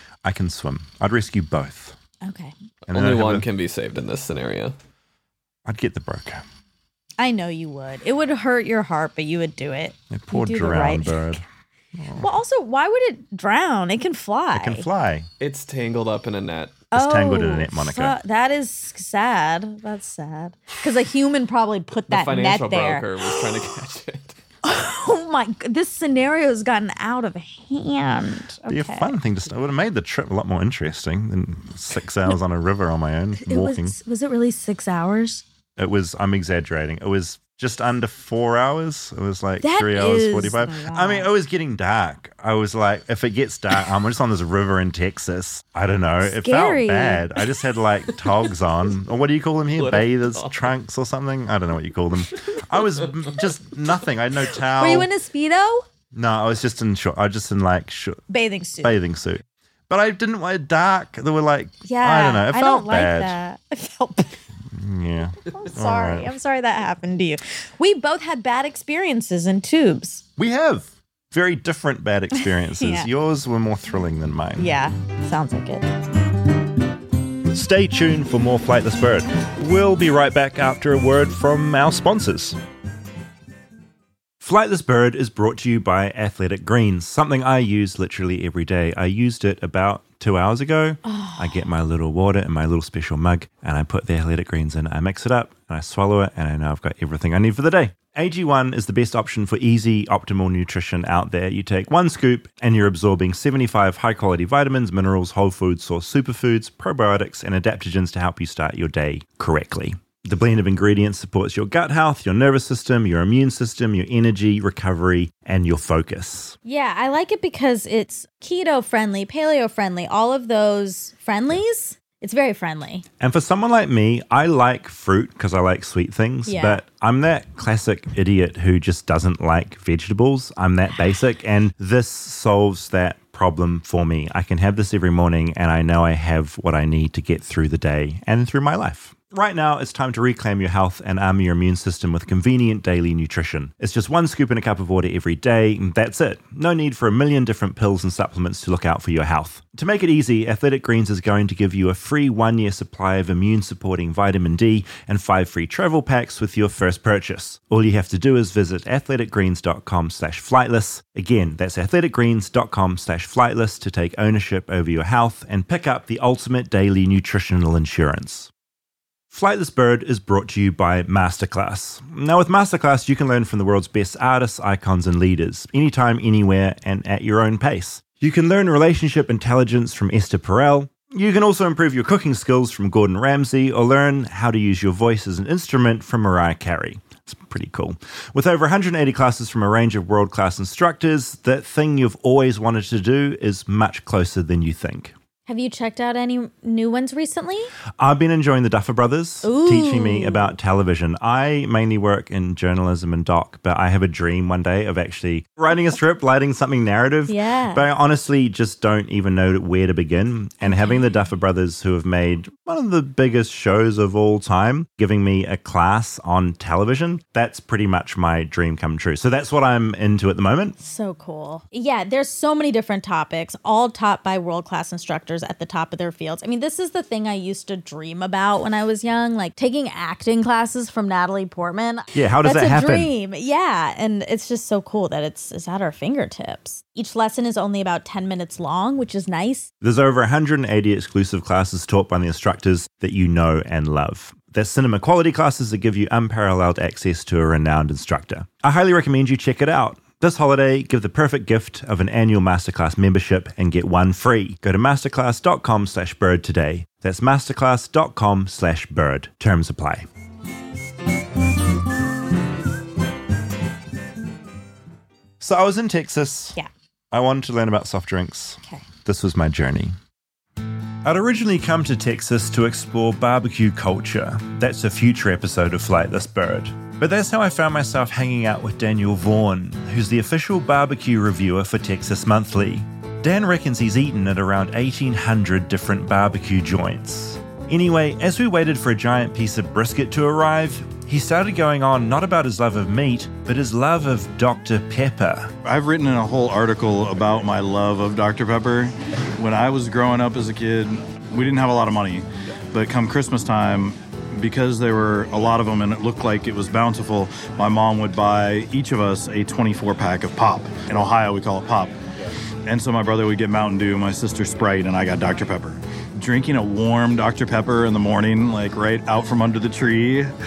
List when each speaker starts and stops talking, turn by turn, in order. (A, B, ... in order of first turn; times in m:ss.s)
0:00.2-0:02.0 A
0:02.2-0:02.5 B
0:02.9-0:03.4 A
0:02.9-0:04.7 C
0:05.6-0:06.4 A
0:07.2-0:11.4 B
0:10.1-0:11.4 A
0:11.9-0:12.2 A
0:12.2-0:14.8 B
0:14.5-0:15.3 A
0:15.4-0:16.8 C
0:16.9-0:18.2 A
0:16.9-0:23.4 B
0:22.1-0:24.4 C
0:24.6-0:29.1 B
0:28.7-0:34.0 A
0:33.4-0:35.4 B
0:35.8-0:55.1 A
0:39.6-0:41.3 B
0:46.2-0:47.2 B
0:49.8-0:50.6 C
0:54.7-0:55.8 B
0:56.1-0:58.2 A
0:58.3-0:59.0 B
0:58.8-1:03.4 A
1:01.8-1:04.4 B
1:04.7-1:06.3 A
1:05.5-1:10.2 B
1:10.4-1:14.6 A
1:12.3-1:13.1 B
1:14.6-1:15.9 B
1:17.5-1:22.6 A
1:24.4-1:56.6 A
1:31.0-1:31.6 B
1:56.6-2:03.0 B
2:03.2-2:48.5 A
2:06.4-2:06.8 B
2:49.3-3:15.1 A
3:15.5-3:17.7 B
3:18.0-3:40.8 A
3:19.4-3:20.6 B
3:27.3-3:27.8 B
3:30.6-3:31.1 B
3:40.8-3:59.7 B
3:52.1-3:53.1 A
3:59.8-4:20.0 A
4:25.4-4:26.6 A
4:27.1-4:30.0 A
4:31.0-4:55.5 A
4:55.6-5:12.0 D
5:12.6-5:20.3 D